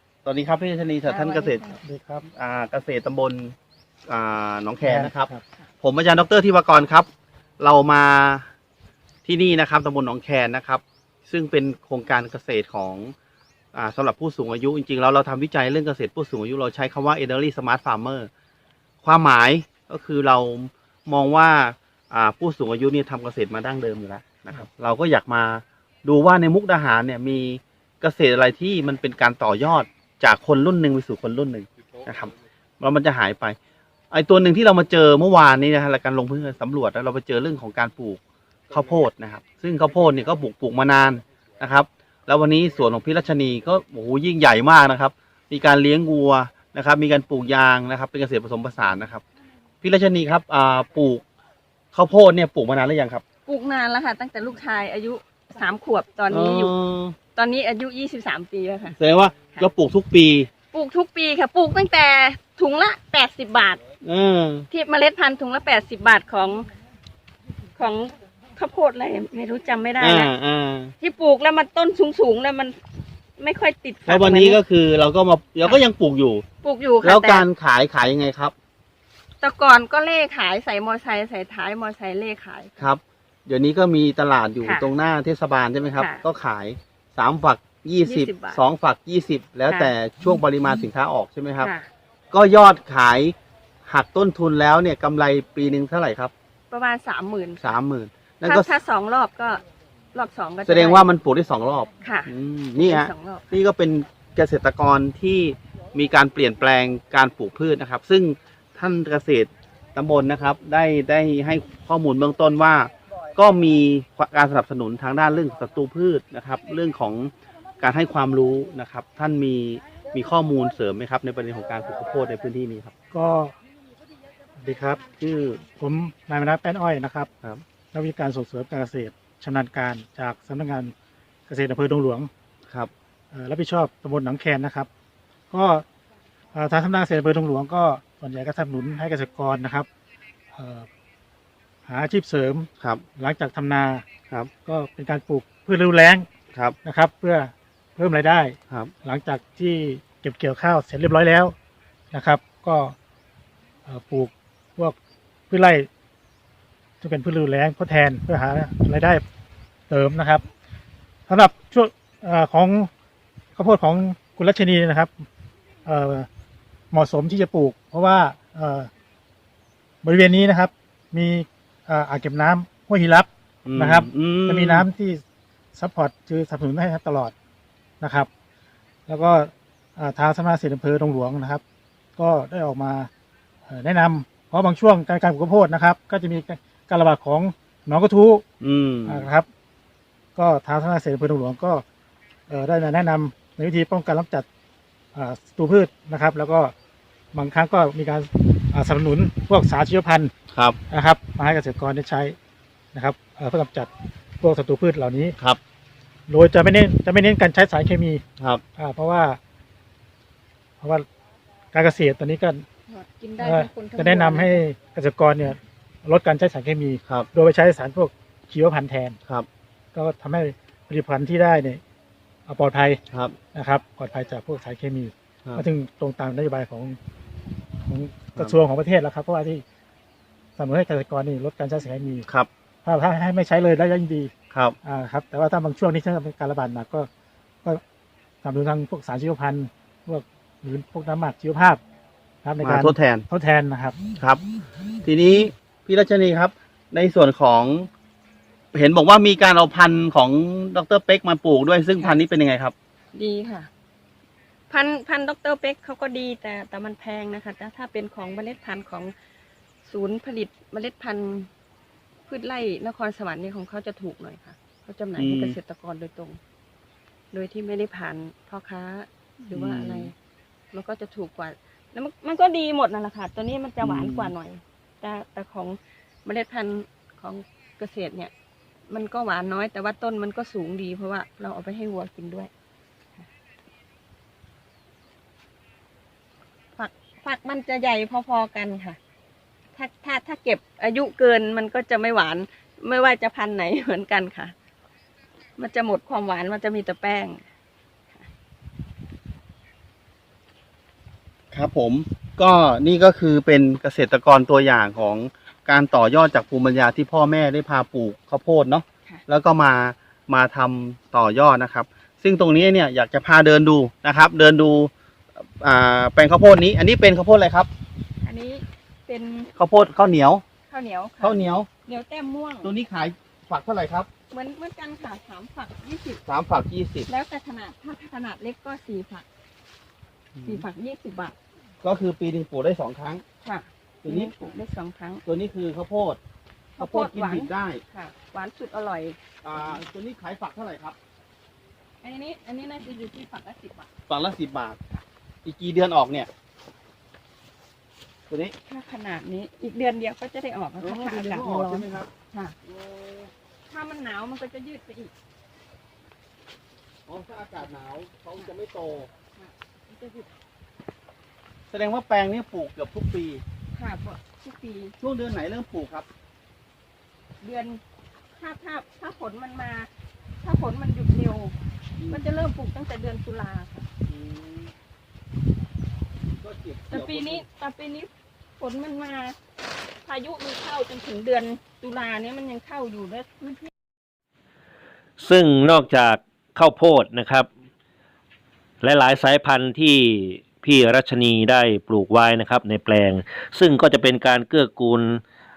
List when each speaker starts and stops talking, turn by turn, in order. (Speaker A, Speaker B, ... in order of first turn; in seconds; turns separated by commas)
Speaker A: 0.2-1.7, Speaker B: 1.1-1.8, Speaker C: 1.8-2.2, Speaker A: 2.2-3.5, Speaker A: 4.1-8.5, Speaker C: 4.8-5.4, Speaker A: 9.2-13.1, Speaker A: 13.7-18.3, Speaker A: 19.0-33.6, Speaker A: 34.1-49.2, Speaker A: 49.8-51.2, Speaker A: 51.9-53.2, Speaker B: 53.5-56.8, Speaker A: 56.3-57.2, Speaker B: 57.4-59.0, Speaker A: 59.0-60.5, Speaker B: 60.7-63.8, Speaker A: 64.0-64.7, Speaker B: 64.7-66.7, Speaker B: 67.8-70.3, Speaker A: 70.0-70.9, Speaker B: 71.0-72.8, Speaker B: 73.4-74.6, Speaker A: 74.1-76.4, Speaker B: 76.6-77.5, Speaker A: 77.0-78.5, Speaker B: 79.4-82.8, Speaker A: 82.8-91.7, Speaker B: 84.6-84.9, Speaker B: 86.0-86.2, Speaker B: 88.0-88.6, Speaker B: 91.6-91.9, Speaker A: 92.3-93.3, Speaker A: 93.9-96.3, Speaker B: 96.7-97.8, Speaker A: 97.6-98.7, Speaker B: 98.4-101.1, Speaker A: 100.6-122.9, Speaker B: 102.0-103.5, Speaker C: 123.1-123.5, Speaker C: 124.6-125.0, Speaker A: 125.2-125.6, Speaker C: 125.8-127.3, Speaker C: 127.9-130.9, Speaker C: 131.5-132.3, Speaker C: 133.3-134.9, Speaker C: 135.5-135.8, Speaker C: 136.6-139.9, Speaker C: 140.5-140.9, Speaker C: 141.9-144.1, Speaker C: 144.7-146.3, Speaker C: 146.8-151.5, Speaker C: 152.1-152.9, Speaker C: 153.9-155.0, Speaker C: 155.5-155.9, Speaker C: 157.0-159.2, Speaker C: 159.9-160.4, Speaker C: 161.3-162.9, Speaker C: 163.6-165.3, Speaker C: 165.9-166.3, Speaker C: 166.9-168.9, Speaker C: 170.0-175.2, Speaker A: 173.7-174.9, Speaker C: 175.8-177.3, Speaker C: 178.0-178.3, Speaker C: 179.1-181.6, Speaker C: 182.2-183.1, Speaker C: 183.7-188.4, Speaker A: 188.6-189.3, Speaker C: 189.1-189.5, Speaker C: 190.4-191.8, Speaker C: 192.5-194.5, Speaker C: 195.2-196.7, Speaker C: 197.3-200.3, Speaker A: 200.5-200.8, Speaker C: 200.9-202.4, Speaker C: 202.9-205.4, Speaker C: 206.3-208.2, Speaker C: 208.8-209.4, Speaker C: 210.8-211.1, Speaker C: 211.7-212.7, Speaker B: 212.9-214.6, Speaker C: 213.4-219.2, Speaker C: 219.9-221.8, Speaker C: 222.5-223.0, Speaker A: 223.1-223.4, Speaker C: 223.5-227.0, Speaker C: 227.8-229.6, Speaker C: 230.6-232.3, Speaker C: 232.8-234.3, Speaker A: 234.5-234.8, Speaker C: 234.8-237.1, Speaker C: 238.4-241.8, Speaker C: 242.4-244.0, Speaker A: 242.6-243.3, Speaker A: 245.0-247.9, Speaker A: 248.7-252.7, Speaker B: 253.1-253.7, Speaker B: 254.7-259.1, Speaker B: 259.9-261.5, Speaker B: 262.3-266.4, Speaker A: 265.2-265.6, Speaker B: 267.3-270.1, Speaker A: 269.5-270.1, Speaker B: 270.7-278.3, Speaker A: 273.8-274.3, Speaker B: 278.9-282.5, Speaker B: 286.8-289.0, Speaker B: 289.7-294.6, Speaker B: 295.6-297.4, Speaker A: 301.5-314.9, Speaker A: 315.6-317.7, Speaker B: 318.2-319.5, Speaker A: 319.6-320.4, Speaker B: 320.7-322.7, Speaker A: 321.2-321.7, Speaker A: 322.6-324.1, Speaker B: 324.3-326.2, Speaker A: 326.3-327.1, Speaker B: 327.1-329.3, Speaker A: 330.4-330.6, Speaker B: 330.4-331.4, Speaker A: 331.8-333.2, Speaker B: 333.4-335.2, Speaker A: 334.0-334.5, Speaker A: 335.2-336.2, Speaker B: 336.8-339.2, Speaker A: 336.8-337.8, Speaker A: 339.4-341.0, Speaker B: 342.0-343.9, Speaker A: 344.1-344.8, Speaker A: 345.4-346.3, Speaker A: 348.3-348.5, Speaker B: 348.6-352.6, Speaker A: 350.8-352.1, Speaker A: 352.7-353.3, Speaker B: 353.7-355.1, Speaker A: 357.1-359.1, Speaker B: 359.4-360.3, Speaker A: 361.7-363.4, Speaker B: 363.7-364.9, Speaker A: 365.0-366.1, Speaker B: 367.4-367.8, Speaker B: 368.3-371.6, Speaker A: 372.0-372.4, Speaker B: 372.1-373.9, Speaker A: 374.1-374.7, Speaker A: 376.3-377.4, Speaker B: 376.9-379.4, Speaker B: 380.0-383.7, Speaker D: 385.2-387.5, Speaker D: 388.8-395.2